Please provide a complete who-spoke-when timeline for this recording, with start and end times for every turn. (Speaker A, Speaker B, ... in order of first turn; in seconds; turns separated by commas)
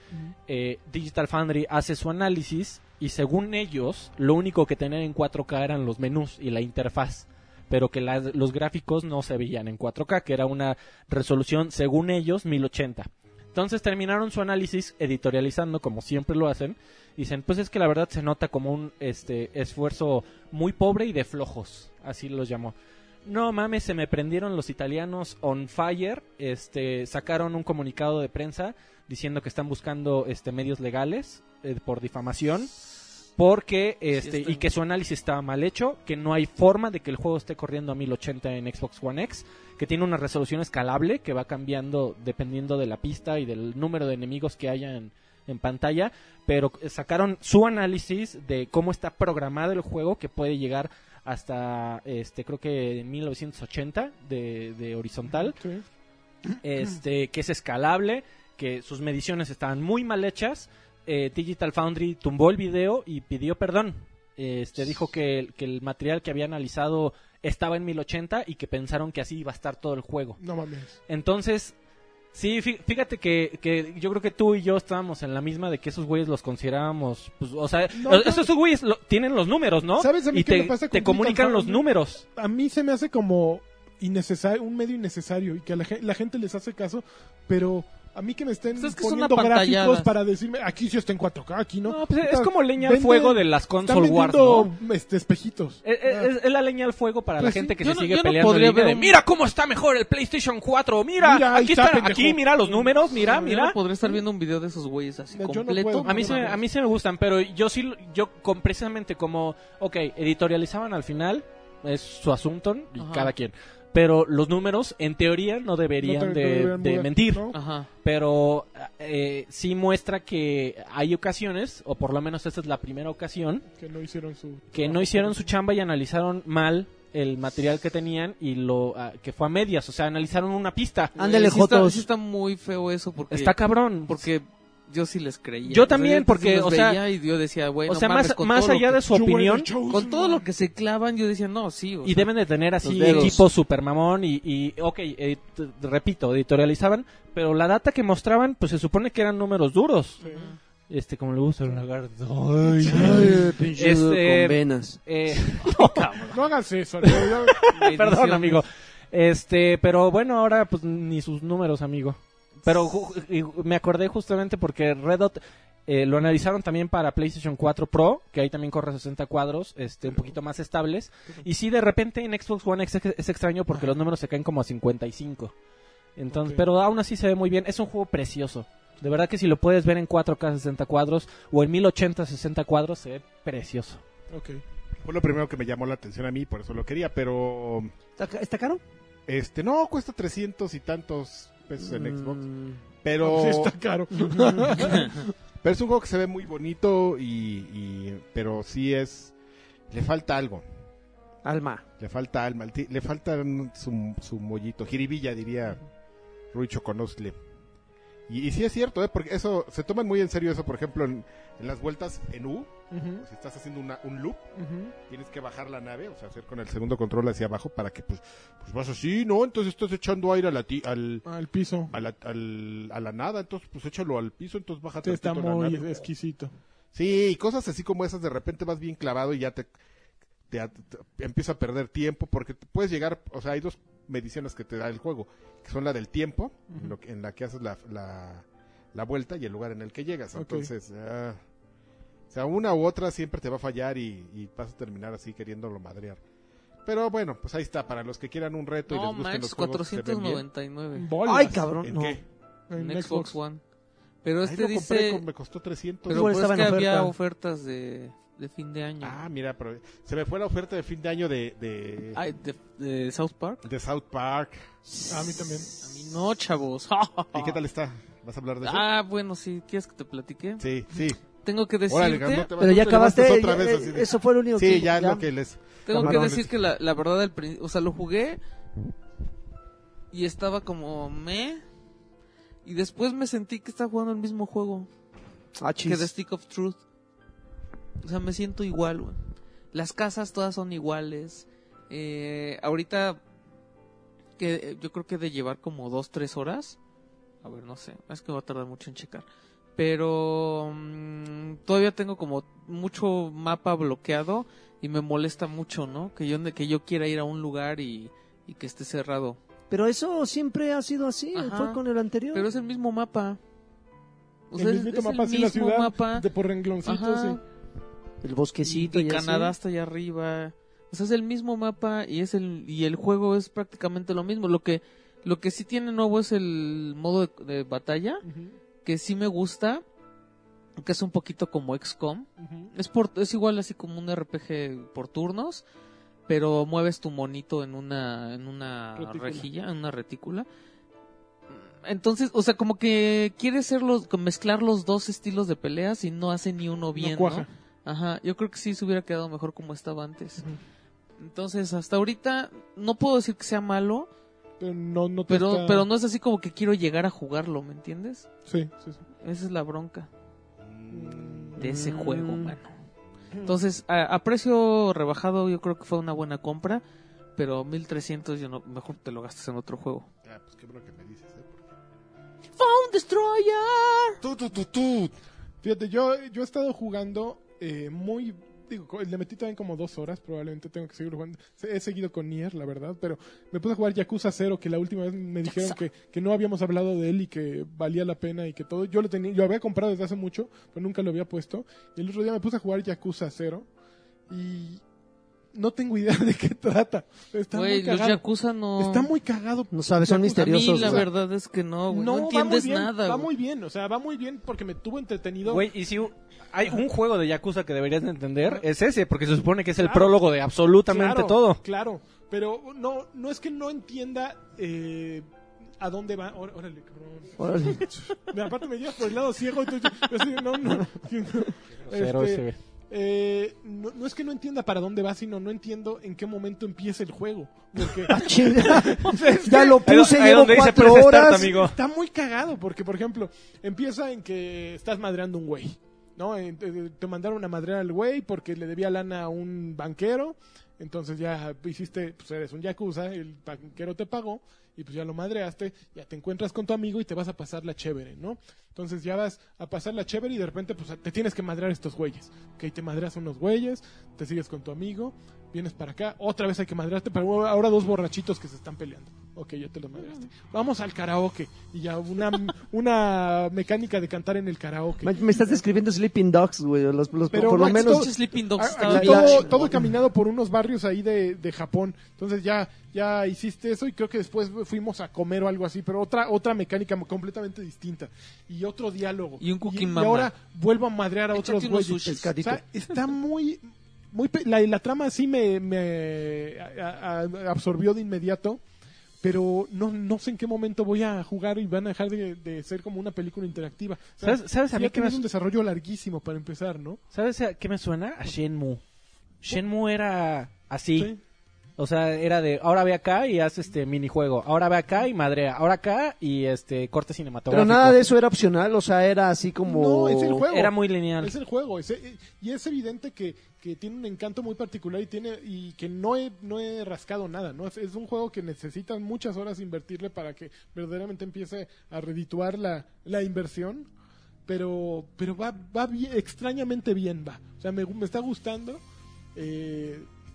Speaker A: 0.5-22.7, Speaker A: 23.2-32.7, Speaker A: 33.4-55.6, Speaker B: 34.2-34.7, Speaker C: 55.3-55.8, Speaker A: 56.6-70.4, Speaker C: 70.4-70.9, Speaker A: 71.1-71.7, Speaker A: 72.3-82.2, Speaker C: 77.9-78.5, Speaker C: 80.0-81.8, Speaker C: 82.3-96.3, Speaker B: 88.8-90.1, Speaker A: 91.8-94.7, Speaker A: 95.8-103.8, Speaker C: 97.4-97.7, Speaker B: 97.8-99.2, Speaker C: 101.2-103.3, Speaker B: 103.2-106.6, Speaker C: 105.3-106.6, Speaker A: 106.0-123.7, Speaker B: 113.0-113.3, Speaker C: 116.0-117.5, Speaker B: 117.5-117.9, Speaker C: 123.7-125.5, Speaker A: 124.7-131.1, Speaker D: 131.2-132.1, Speaker B: 131.2-133.5, Speaker A: 133.3-134.2, Speaker B: 134.1-139.0, Speaker A: 135.7-137.0, Speaker A: 137.9-139.7, Speaker C: 139.1-140.4, Speaker B: 139.9-142.3, Speaker A: 142.0-150.2, Speaker D: 142.8-143.5, Speaker B: 143.0-143.4, Speaker C: 150.2-150.5, Speaker B: 150.2-150.6, Speaker A: 150.9-156.1, Speaker C: 152.6-153.3, Speaker D: 152.9-155.0, Speaker B: 155.6-156.4, Speaker C: 156.3-157.7, Speaker A: 157.0-175.5, Speaker B: 157.6-158.6, Speaker C: 170.0-170.3, Speaker A: 176.2-184.0, Speaker C: 176.3-176.6, Speaker C: 184.3-184.6, Speaker E: 185.0-187.9, Speaker D: 188.2-188.8, Speaker E: 189.3-192.4, Speaker D: 191.8-192.8, Speaker E: 193.0-193.7, Speaker C: 193.2-195.2, Speaker D: 194.2-194.8, Speaker E: 195.6-199.3, Speaker E: 199.9-200.6, Speaker D: 201.4-201.8, Speaker E: 202.0-205.8, Speaker E: 206.5-207.3, Speaker E: 208.3-214.4, Speaker C: 212.9-213.2, Speaker C: 214.6-214.9, Speaker E: 215.1-221.2, Speaker C: 221.2-221.9, Speaker E: 221.9-225.9, Speaker C: 225.0-226.5, Speaker E: 226.9-229.7, Speaker E: 230.5-241.4, Speaker C: 240.3-240.7, Speaker E: 242.3-246.2, Speaker E: 246.8-250.4, Speaker B: 248.9-251.1, Speaker C: 250.9-251.7, Speaker D: 251.2-252.2, Speaker E: 251.8-252.2, Speaker C: 252.7-253.4, Speaker B: 252.8-253.6, Speaker B: 254.2-255.2, Speaker E: 254.4-256.4, Speaker D: 256.1-257.1, Speaker B: 256.1-259.2, Speaker E: 259.0-262.2, Speaker B: 262.1-263.6, Speaker E: 263.6-264.6, Speaker D: 264.9-265.9, Speaker C: 265.1-265.7, Speaker B: 265.8-267.6, Speaker E: 267.3-268.9, Speaker B: 268.6-270.6, Speaker E: 270.6-271.2, Speaker B: 271.4-272.5, Speaker E: 271.9-276.5, Speaker D: 272.6-275.2, Speaker B: 275.9-278.4, Speaker D: 275.9-276.4, Speaker B: 280.1-281.6, Speaker B: 282.6-284.9, Speaker D: 285.6-286.1, Speaker B: 285.8-286.8, Speaker B: 288.0-289.2, Speaker B: 289.7-293.2, Speaker B: 294.4-296.8, Speaker B: 297.4-299.2, Speaker B: 299.8-309.4, Speaker D: 309.7-312.4, Speaker B: 311.3-311.8, Speaker B: 312.3-313.4, Speaker B: 314.5-316.2, Speaker C: 314.6-317.4, Speaker B: 316.8-317.4, Speaker D: 318.2-319.5, Speaker B: 318.6-328.2, Speaker C: 328.2-328.6, Speaker B: 328.8-329.8, Speaker B: 330.8-335.6, Speaker C: 332.4-332.7, Speaker B: 336.3-340.5, Speaker C: 338.9-339.5, Speaker B: 341.5-350.4, Speaker C: 347.0-347.5, Speaker B: 351.2-354.1, Speaker C: 354.6-355.9, Speaker B: 355.3-358.3, Speaker C: 358.4-359.0, Speaker B: 359.2-360.1, Speaker E: 360.6-361.6, Speaker C: 360.9-361.6, Speaker D: 361.6-362.5, Speaker B: 361.6-362.7, Speaker B: 363.4-366.8, Speaker B: 367.4-370.1, Speaker E: 370.2-371.7, Speaker B: 372.6-374.2, Speaker E: 374.2-375.1, Speaker C: 375.6-393.7, Speaker B: 385.4-385.8, Speaker C: 394.3-394.8, Speaker C: 395.5-398.2, Speaker B: 397.5-399.1, Speaker C: 398.8-401.1, Speaker D: 399.7-401.1, Speaker B: 400.3-403.3, Speaker C: 401.9-405.7, Speaker A: 405.4-411.6, Speaker C: 409.8-410.2, Speaker C: 410.9-415.2, Speaker C: 415.8-429.8, Speaker D: 417.4-417.9, Speaker A: 421.9-422.5, Speaker D: 428.1-431.6, Speaker A: 429.7-431.8, Speaker C: 431.4-465.6, Speaker D: 465.0-468.1, Speaker C: 467.3-488.6, Speaker B: 467.3-469.8, Speaker D: 468.8-469.8, Speaker B: 479.4-480.3, Speaker B: 481.3-482.3, Speaker D: 482.1-482.6, Speaker C: 489.2-497.0, Speaker A: 494.2-495.2, Speaker A: 497.1-498.8, Speaker A: 499.4-501.1, Speaker A: 501.8-508.0, Speaker D: 507.5-510.4, Speaker C: 509.6-523.9, Speaker A: 510.5-511.3, Speaker C: 524.5-528.8, Speaker C: 529.3-530.1